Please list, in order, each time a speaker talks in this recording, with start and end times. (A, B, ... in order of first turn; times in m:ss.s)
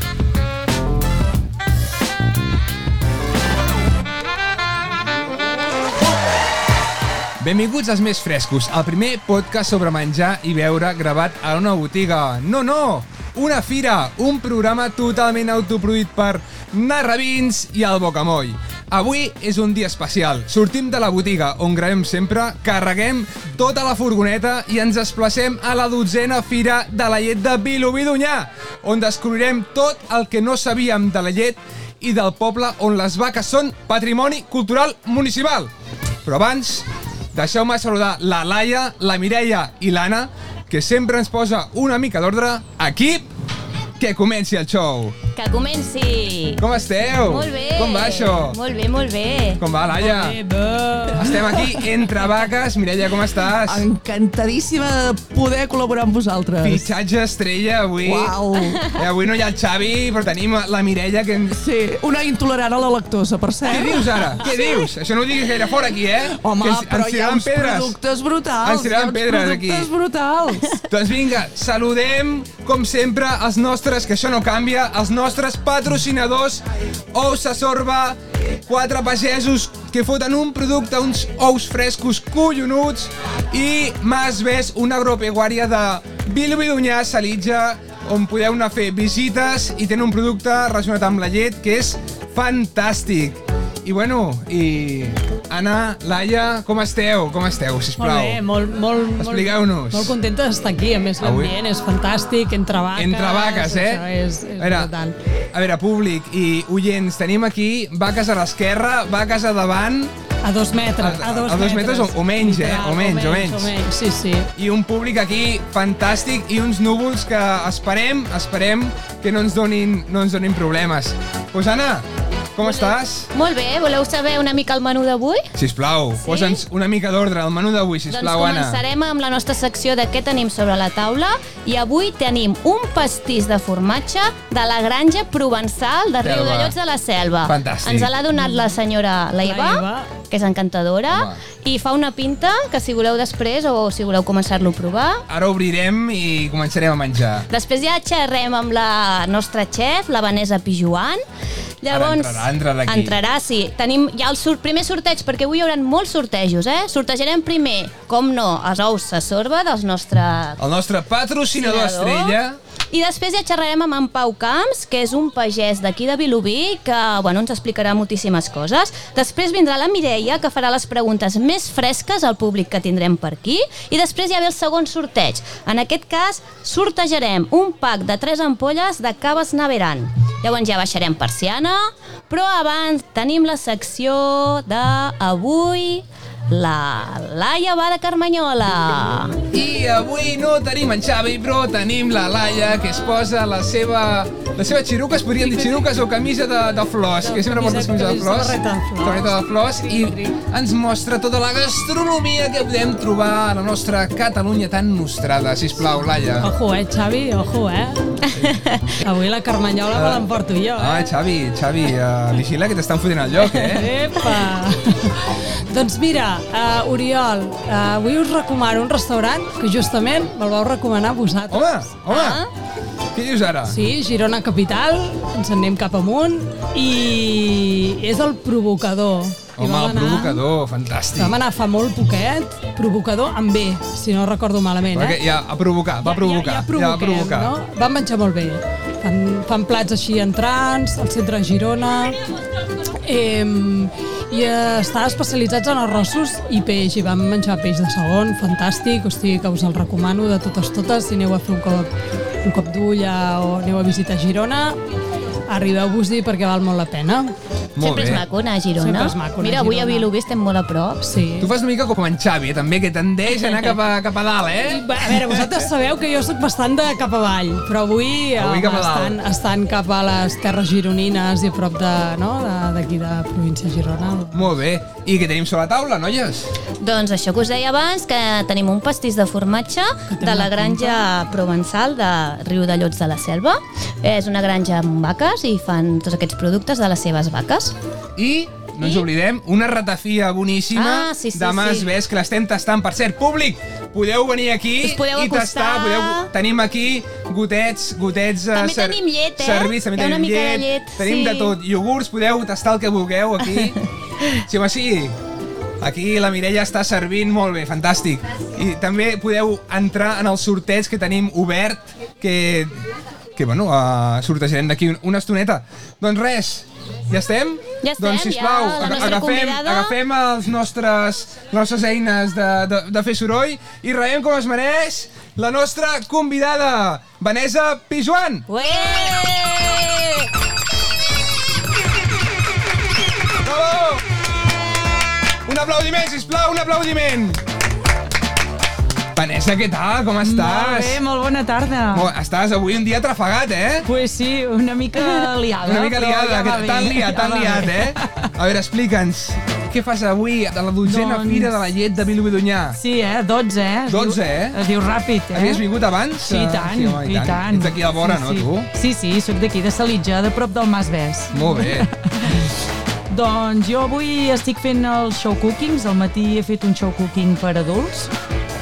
0:07.4-0:35.7 A
0:36.2-0:43.3 A
0:44.0-0:45.2 A
0:45.4-0:46.6 B
0:46.6-0:48.6 A
0:47.2-0:49.6 B
0:49.6-0:50.4 A
0:50.0-0:51.5 C
0:51.1-0:53.9 A
0:53.7-0:56.9 D
0:56.6-0:58.4 A
0:58.0-0:59.0 D
0:58.9-1:01.6 A
1:01.5-1:04.3 D
1:03.6-1:08.0 A
1:06.3-1:10.8 D
1:08.6-1:09.9 A
1:10.9-1:38.4 A
1:38.0-1:45.1 C
1:39.2-1:40.2 A
1:41.2-1:41.6 A
1:43.0-1:44.0 A
1:44.6-1:44.9 A
1:45.5-1:50.1 A
1:50.4-1:54.5 C
1:51.0-1:53.7 A
1:54.6-2:03.3 A
2:03.3-2:05.5 B
2:05.6-2:08.8 A
2:06.2-2:06.6 B
2:08.1-2:25.2 B
2:16.2-2:16.8 A
2:17.4-2:18.1 A
2:18.4-2:18.8 C
2:19.4-2:20.1 C
2:21.1-2:21.4 A
2:25.3-2:27.5 A
2:27.5-2:31.2 B
2:31.8-2:40.6 B
2:31.9-2:33.2 A
2:40.6-2:42.6 A
2:41.6-2:42.4 B
2:42.9-3:09.4 B
3:09.5-3:26.5 A
3:15.4-3:15.8 C
3:17.2-3:20.3 C
3:26.4-3:28.2 C
3:28.4-3:28.8 B
3:29.0-3:31.0 C
3:29.9-3:30.2 A
3:30.8-3:33.9 A
3:33.6-3:35.2 C
3:35.7-3:41.7 C
3:41.5-3:42.4 A
3:42.1-3:42.5 B
3:43.2-3:43.8 A
3:43.7-3:50.4 C
3:49.6-3:51.4 A
3:51.2-3:55.2 C
3:54.9-3:57.5 A
3:56.0-4:02.2 C
4:03.0-4:11.9 C
4:12.4-4:14.8 C
4:15.5-4:17.3 C
4:17.8-4:18.2 A
4:17.8-4:21.2 B
4:18.8-4:20.1 C
4:21.1-4:21.5 C
4:21.4-4:25.1 A
4:23.4-4:23.8 C
4:24.6-4:34.5 C
4:28.4-4:29.2 A
4:34.3-4:36.5 A
4:36.8-4:47.8 B
4:40.1-4:41.0 C
4:48.2-5:03.8 A
4:50.7-4:51.9 B
4:54.8-4:56.3 B
4:58.5-5:01.6 B
5:04.4-5:05.1 A
5:05.8-5:12.8 A
5:13.4-5:28.5 A
5:17.8-5:19.9 B
5:28.5-5:30.3 B
5:33.4-5:34.0 A
5:35.4-5:37.4 A
5:39.2-5:41.0 A
5:40.2-5:42.1 E
5:41.9-5:43.9 A
5:43.8-5:48.3 E
5:45.6-5:52.8 A
5:50.8-5:51.6 E
5:52.7-5:55.6 E
5:53.9-5:54.6 A
5:55.3-5:58.7 A
5:56.2-6:02.5 E
6:01.3-6:01.9 A
6:03.1-6:08.1 E